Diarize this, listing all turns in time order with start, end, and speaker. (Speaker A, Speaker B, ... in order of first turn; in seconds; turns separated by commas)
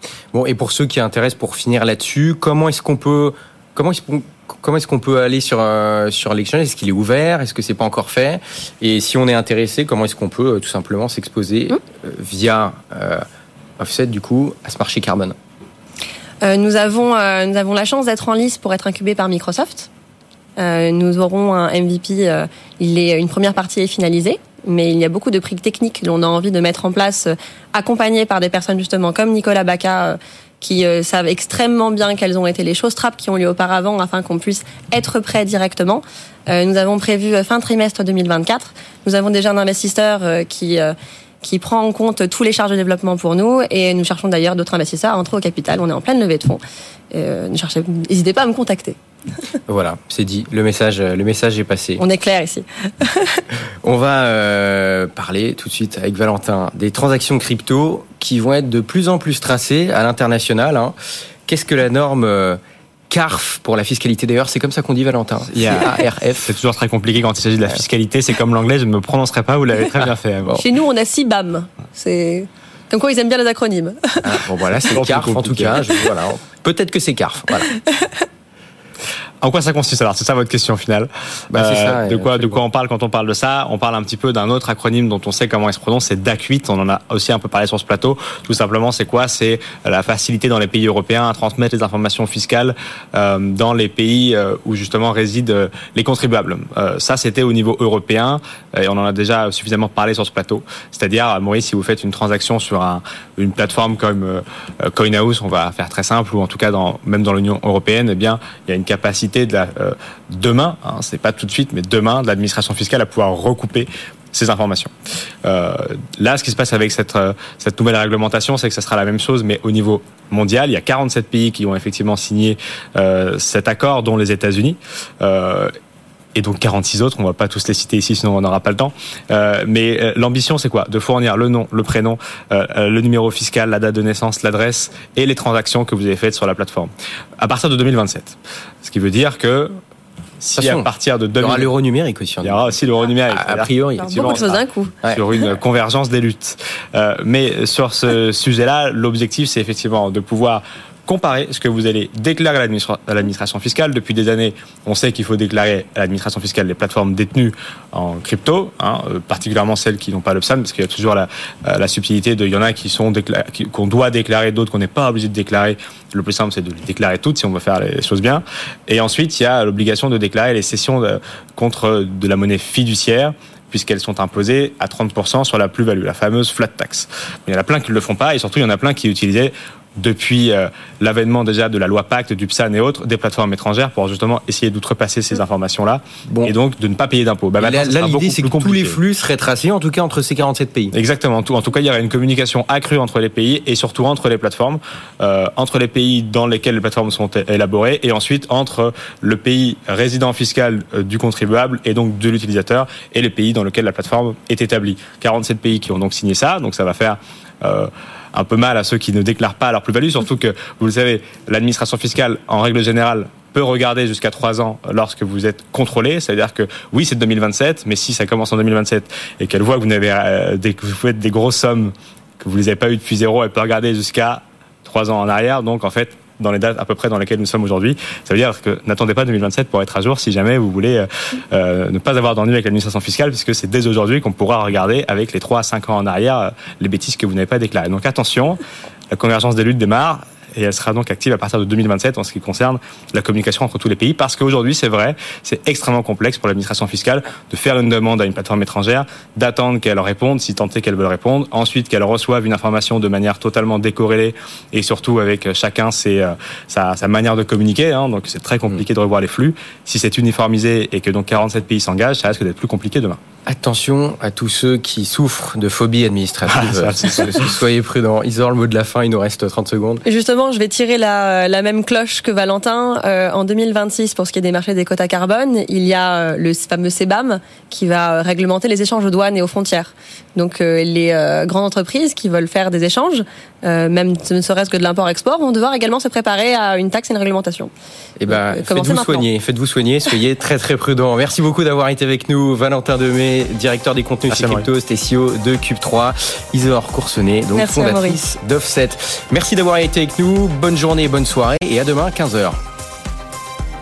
Speaker A: 0.3-13.2, Speaker A: 13.8-15.3, Speaker B: 16.4-19.9, Speaker B: 20.6-49.0, Speaker A: 49.7-52.0, Speaker B: 52.0-53.4, Speaker A: 53.8-60.9, Speaker A: 61.5-62.6, Speaker A: 63.1-66.5, Speaker C: 65.5-70.6, Speaker B: 70.6-74.4, Speaker A: 74.2-77.7, Speaker C: 74.9-75.9, Speaker C: 79.4-114.9, Speaker A: 81.5-82.6, Speaker C: 115.4-125.7, Speaker C: 126.3-139.8, Speaker C: 140.4-141.7, Speaker A: 140.6-140.9, Speaker A: 141.4-142.8, Speaker C: 142.4-189.0, Speaker A: 143.3-144.4, Speaker B: 144.0-144.9, Speaker A: 186.3-186.5, Speaker A: 187.6-190.9, Speaker C: 190.9-238.6, Speaker C: 239.1-263.2, Speaker A: 263.4-270.0, Speaker C: 266.5-267.5, Speaker B: 270.0-287.7, Speaker A: 288.2-302.6, Speaker B: 288.3-289.2, Speaker C: 294.3-294.6, Speaker B: 297.5-298.2